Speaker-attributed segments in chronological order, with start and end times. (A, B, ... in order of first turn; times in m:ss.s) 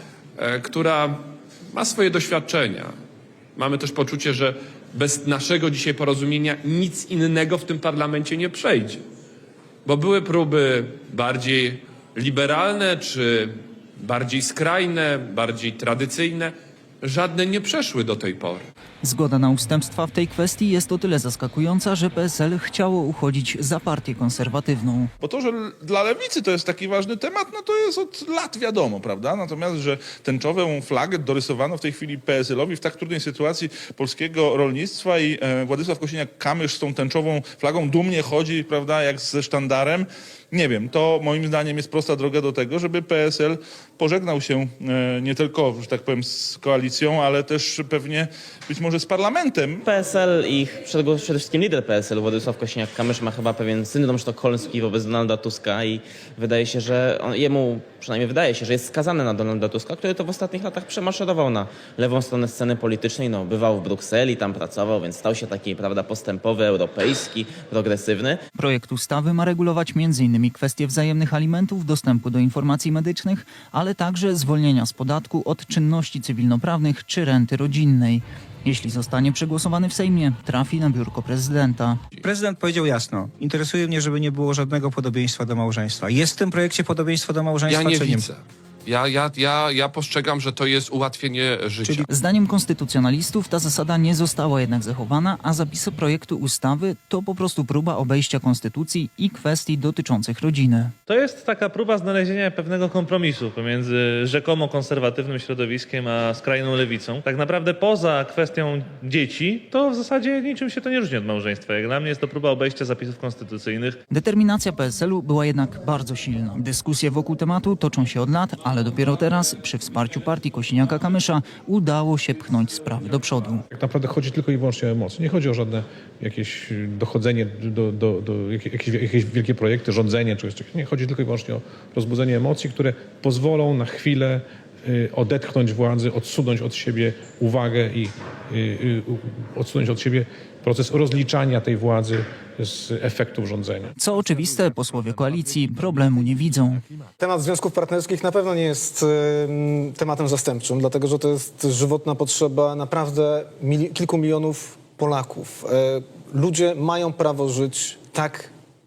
0:00.4-0:01.1 A
0:01.7-0:02.9 A
0:03.6-0:09.0 A
0:09.8-0:13.5 A
0:14.0-0:16.5 A
0:17.0-0:18.6 A
0:19.0-0:25.1 B
0:25.2-0:49.8 C
0:49.8-1:08.4 D
1:08.6-1:22.0 B
1:22.2-1:28.3 E
1:27.7-1:32.0 F
1:32.1-1:40.9 B
1:41.1-1:54.0 G
1:54.1-2:03.6 B
2:03.7-2:23.9 F
2:24.0-2:26.8 B
2:27.2-2:38.5 H